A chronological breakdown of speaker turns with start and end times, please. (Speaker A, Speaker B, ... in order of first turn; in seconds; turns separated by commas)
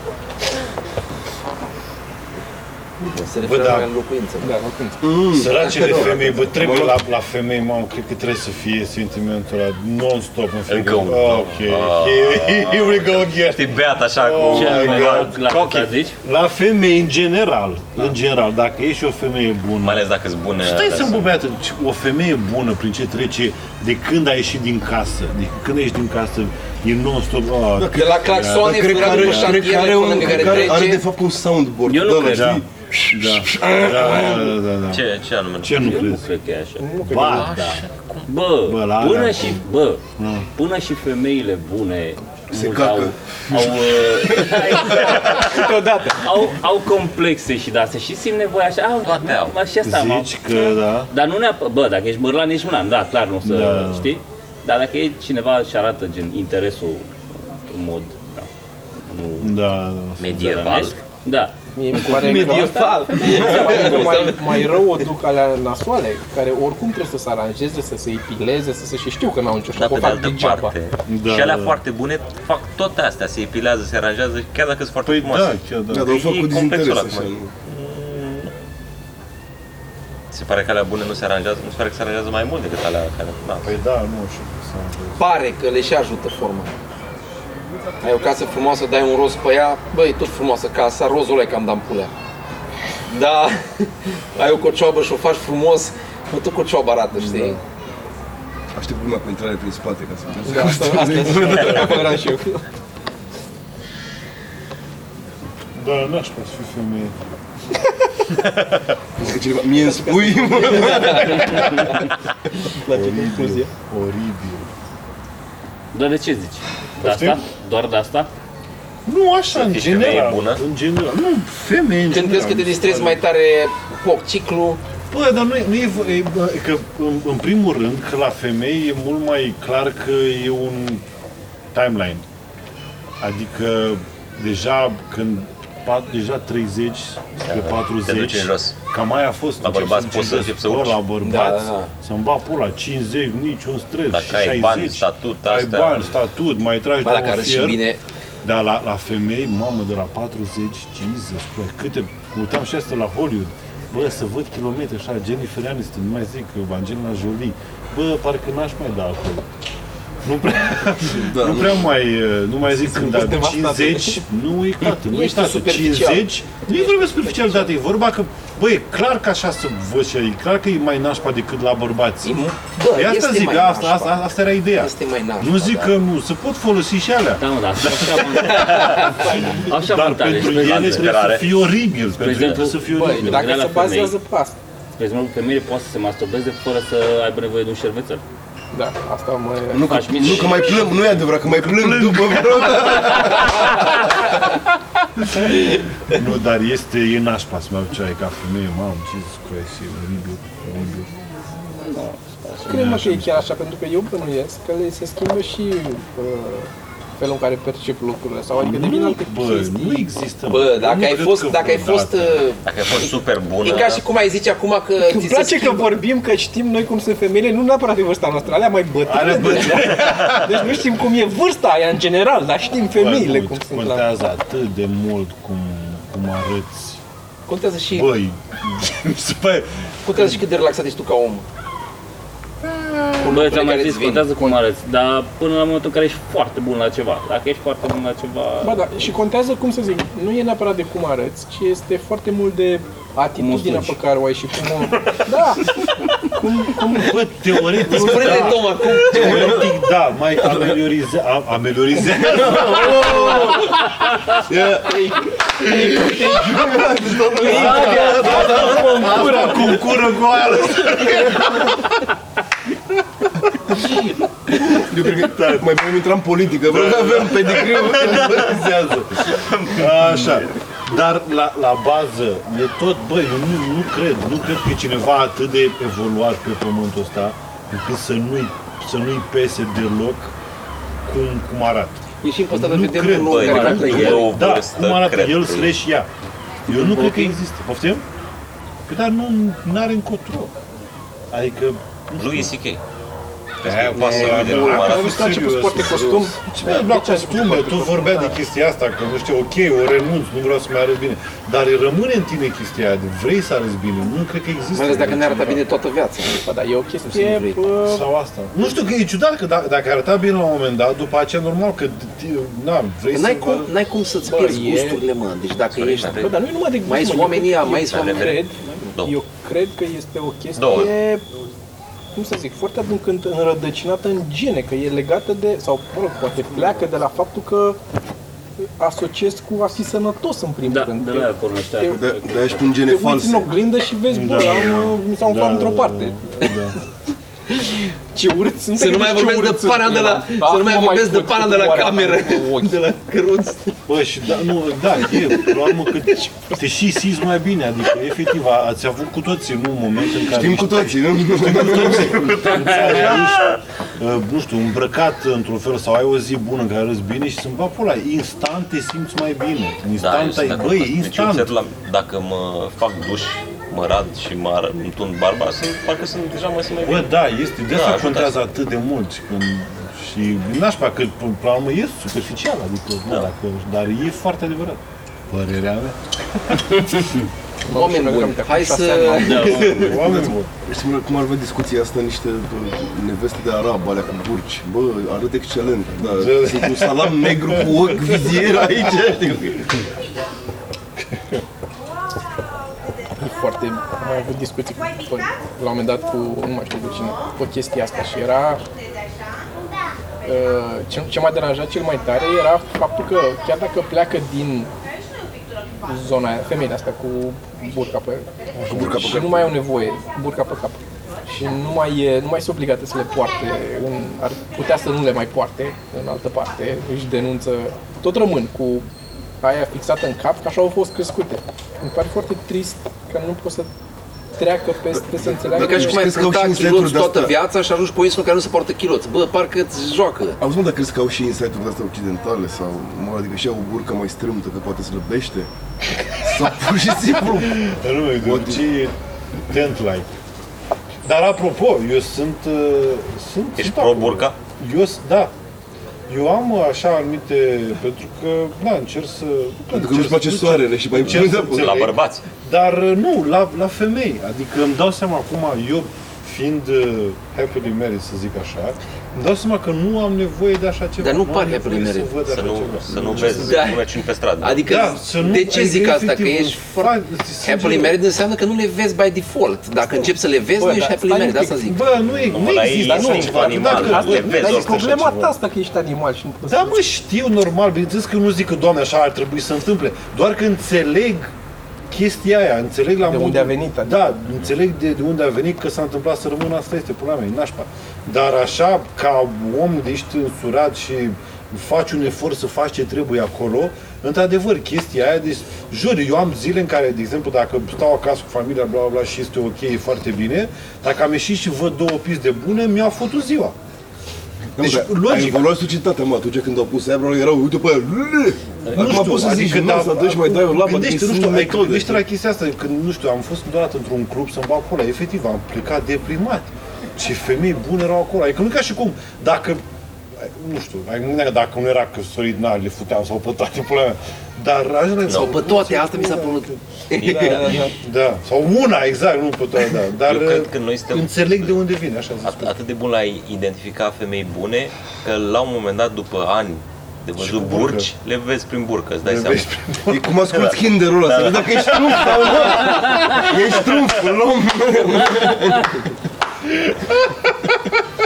Speaker A: 3.1-4.6, Speaker B: 3.4-3.9, Speaker C: 4.4-5.1, Speaker D: 5.0-7.0, Speaker B: 5.3-29.6, Speaker A: 5.5-6.0, Speaker E: 10.7-15.4, Speaker F: 14.5-16.2, Speaker E: 19.8-21.3, Speaker D: 27.8-34.5, Speaker A: 27.9-31.0, Speaker B: 30.2-30.8, Speaker F: 31.9-32.6, Speaker B: 32.2-35.1, Speaker E: 34.9-35.8, Speaker B: 35.6-36.2, Speaker F: 35.8-36.9, Speaker C: 36.8-37.5, Speaker B: 37.0-37.9, Speaker F: 38.3-40.0, Speaker B: 38.6-39.6, Speaker B: 40.2-40.5, Speaker F: 40.5-58.5, Speaker D: 42.5-44.7, Speaker C: 44.9-46.5, Speaker E: 49.0-49.6, Speaker B: 49.8-51.1, Speaker B: 53.4-54.1, Speaker F: 59.0-59.6, Speaker B: 59.4-60.6, Speaker E: 60.2-61.0, Speaker F: 60.3-64.4, Speaker C: 61.8-70.8, Speaker A: 62.2-64.8, Speaker E: 69.7-78.5, Speaker B: 71.1-71.8, Speaker B: 75.0-76.1, Speaker D: 75.9-77.5, Speaker E: 80.3-83.7, Speaker B: 83.6-85.2, Speaker A: 85.2-86.7, Speaker A: 88.0-92.1, Speaker A: 93.1-97.6, Speaker B: 97.2-97.6, Speaker D: 98.8-102.2, Speaker C: 100.5-102.6, Speaker B: 105.8-107.2, Speaker D: 109.2-111.8, Speaker C: 109.8-111.7, Speaker C: 112.8-113.7, Speaker B: 112.9-114.7, Speaker F: 115.9-118.3, Speaker B: 117.0-117.4, Speaker B: 119.1-123.2, Speaker E: 119.5-120.6, Speaker A: 122.1-124.8, Speaker B: 125.1-131.0, Speaker B: 131.7-132.2, Speaker B: 133.2-147.8, Speaker E: 137.5-138.8, Speaker E: 139.6-141.0, Speaker A: 141.2-141.9, Speaker E: 144.1-146.1, Speaker A: 147.0-148.0, Speaker B: 148.4-159.5, Speaker B: 160.2-183.5, Speaker D: 161.2-161.9, Speaker C: 162.7-164.2, Speaker C: 165.1-166.2, Speaker A: 165.1-166.2, Speaker A: 172.2-174.2, Speaker A: 174.7-175.9, Speaker F: 177.4-181.3, Speaker E: 180.4-181.6, Speaker F: 182.2-184.2, Speaker C: 182.9-184.6, Speaker F: 185.0-188.2, Speaker C: 188.7-189.9, Speaker D: 189.7-193.7, Speaker F: 189.8-191.2, Speaker B: 191.8-192.8, Speaker B: 195.3-201.1, Speaker F: 201.9-202.6, Speaker C: 202.6-210.1, Speaker B: 202.7-203.5, Speaker B: 208.6-212.4, Speaker A: 210.5-216.0, Speaker E: 212.6-214.1, Speaker C: 215.0-224.1, Speaker B: 219.1-220.8, Speaker B: 222.9-227.0, Speaker A: 227.5-228.1, Speaker B: 227.9-230.4, Speaker A: 230.1-231.4, Speaker A: 233.2-234.6, Speaker F: 233.2-238.9, Speaker C: 238.6-247.2, Speaker F: 243.4-244.0, Speaker B: 246.9-253.4, Speaker D: 247.7-249.7, Speaker A: 247.8-249.7, Speaker D: 250.5-250.7, Speaker D: 252.1-253.8, Speaker C: 252.9-253.6, Speaker D: 254.3-255.1, Speaker C: 254.8-259.9, Speaker D: 255.6-258.9, Speaker B: 257.5-261.9, Speaker F: 257.6-258.7, Speaker B: 263.7-264.0, Speaker D: 264.6-268.8, Speaker B: 265.1-265.7, Speaker B: 266.6-280.4, Speaker B: 281.1-286.1, Speaker A: 282.2-284.4, Speaker E: 283.2-285.7, Speaker F: 283.4-284.3, Speaker B: 286.7-288.0, Speaker F: 286.7-287.4, Speaker B: 288.9-290.5, Speaker B: 291.3-292.5, Speaker E: 292.2-292.8, Speaker E: 293.6-295.4, Speaker B: 293.6-305.6, Speaker C: 294.0-298.4, Speaker A: 304.7-306.4, Speaker C: 306.3-308.1, Speaker A: 307.1-307.6, Speaker B: 307.8-313.7, Speaker A: 313.1-316.3, Speaker C: 314.3-315.0, Speaker E: 315.7-316.4, Speaker C: 316.1-321.2, Speaker A: 316.9-318.4, Speaker E: 317.9-318.4, Speaker E: 320.6-320.9, Speaker C: 322.2-327.8, Speaker C: 328.8-332.0, Speaker F: 330.7-332.7, Speaker D: 331.9-333.5, Speaker C: 332.8-336.5, Speaker B: 334.1-336.8, Speaker C: 337.7-342.8, Speaker A: 338.8-343.8, Speaker B: 343.9-361.5, Speaker D: 350.3-352.5, Speaker E: 360.0-367.1, Speaker B: 366.9-376.8, Speaker E: 367.7-368.4, Speaker C: 377.7-379.6, Speaker A: 377.7-380.2, Speaker F: 379.2-380.3, Speaker B: 379.4-380.5, Speaker D: 380.6-389.7, Speaker B: 386.0-388.2, Speaker C: 393.2-398.6, Speaker C: 400.2-404.7, Speaker C: 405.8-418.9, Speaker D: 408.7-409.6, Speaker C: 419.4-423.7, Speaker C: 424.4-426.0, Speaker D: 424.9-427.3, Speaker A: 425.5-430.4, Speaker D: 430.4-435.5, Speaker D: 436.1-437.7, Speaker B: 437.3-438.9, Speaker D: 438.2-438.6, Speaker B: 439.5-440.1, Speaker B: 441.0-445.3, Speaker E: 443.6-444.4, Speaker B: 446.1-463.7, Speaker D: 449.7-451.8, Speaker E: 451.2-452.2, Speaker A: 461.0-462.2, Speaker E: 462.3-464.7, Speaker A: 463.3-463.9, Speaker A: 464.4-466.9, Speaker B: 464.6-468.0, Speaker A: 467.4-471.8, Speaker C: 469.8-471.6, Speaker B: 471.6-475.4, Speaker E: 472.2-474.9, Speaker C: 472.9-476.8, Speaker B: 476.5-481.3, Speaker B: 481.9-503.6, Speaker C: 483.1-484.1, Speaker D: 504.6-512.0, Speaker B: 504.6-505.5, Speaker B: 508.7-519.6, Speaker B: 520.1-532.5, Speaker E: 525.1-525.3, Speaker A: 525.1-527.7, Speaker C: 527.0-527.7, Speaker E: 530.1-531.1, Speaker E: 532.2-539.5, Speaker B: 537.2-537.9, Speaker B: 539.0-540.0, Speaker D: 539.9-545.9, Speaker E: 540.4-542.8, Speaker B: 541.8-543.2, Speaker B: 546.5-547.5